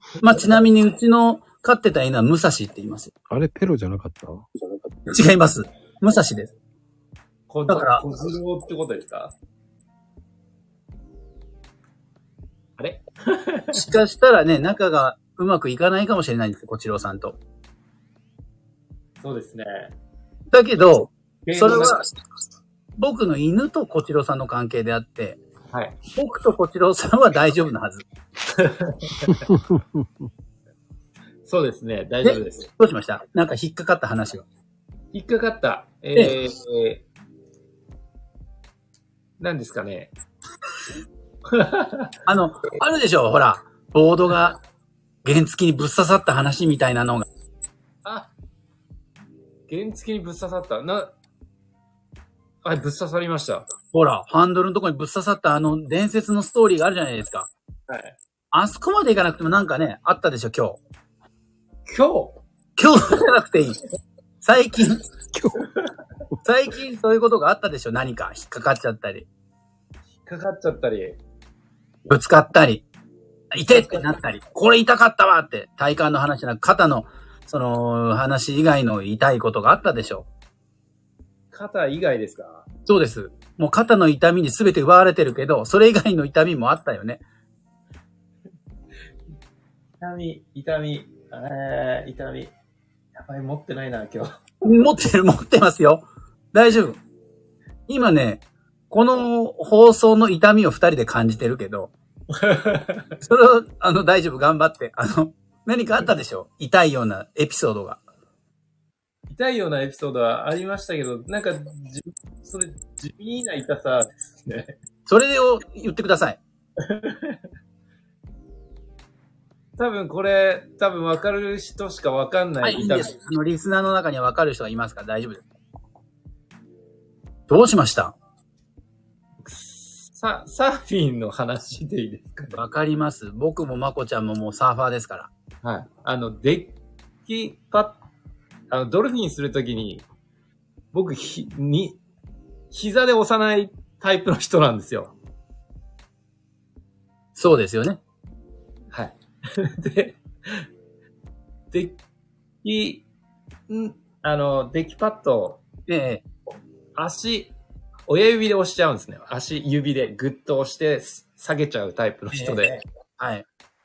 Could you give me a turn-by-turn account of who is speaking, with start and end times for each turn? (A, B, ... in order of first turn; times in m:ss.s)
0:00.2-0:03.1 A
0:03.3-0:04.5 B
0:05.1-0:06.5 A
0:07.5-0:09.3 C
0:07.7-0:08.0 A
0:12.8-0:13.8 C
0:13.7-0:17.4 A
0:19.2-0:19.9 C
0:20.5-0:22.1 A
0:21.4-0:22.0 C
0:23.0-0:25.4 A
0:25.7-0:26.0 C
0:26.1-0:28.0 A
0:28.5-0:29.4 C
0:29.3-0:30.3 B
0:31.4-0:32.7 C
0:32.2-0:34.4 A
0:35.1-0:37.0 C
0:39.4-0:40.1 C
0:41.5-0:42.1 C
0:42.2-0:44.6 A
0:45.2-0:47.2 A
0:48.0-0:48.3 C
0:49.7-0:51.1 C
0:52.6-0:53.7 C
0:53.9-0:57.5 A
0:57.9-0:58.2 C
0:58.5-1:00.8 A
1:01.8-1:02.4 C
1:02.8-1:03.8 A
1:04.4-1:05.0 A
1:05.3-1:05.6 B
1:06.4-1:09.3 A
1:10.2-1:11.2 C
1:12.1-1:12.8 A
1:13.5-1:20.2 A
1:21.5-1:22.6 C
1:22.8-1:27.2 A
1:30.0-1:32.5 C
1:33.1-1:34.3 C
1:34.6-1:37.0 A
1:37.9-1:41.9 A
1:42.3-1:43.1 C
1:43.2-1:48.0 A
1:49.3-1:54.8 C
1:55.1-1:56.4 A
1:56.8-1:57.4 C
1:59.8-2:03.1 C
2:02.6-2:05.4 A
2:07.5-2:08.1 A
2:09.4-2:12.6 C
2:12.5-2:15.3 A
2:15.6-2:18.0 C
2:18.7-2:20.0 C
2:20.9-2:22.0 C
2:22.7-2:25.1 C
2:27.4-2:28.0 A
2:28.9-2:30.6 C
2:31.7-2:32.0 C
2:32.6-2:33.0 C
2:33.7-2:35.6 C
2:35.9-2:36.2 A
2:37.0-2:37.5 C
2:38.1-2:42.8 C
2:42.3-2:43.4 A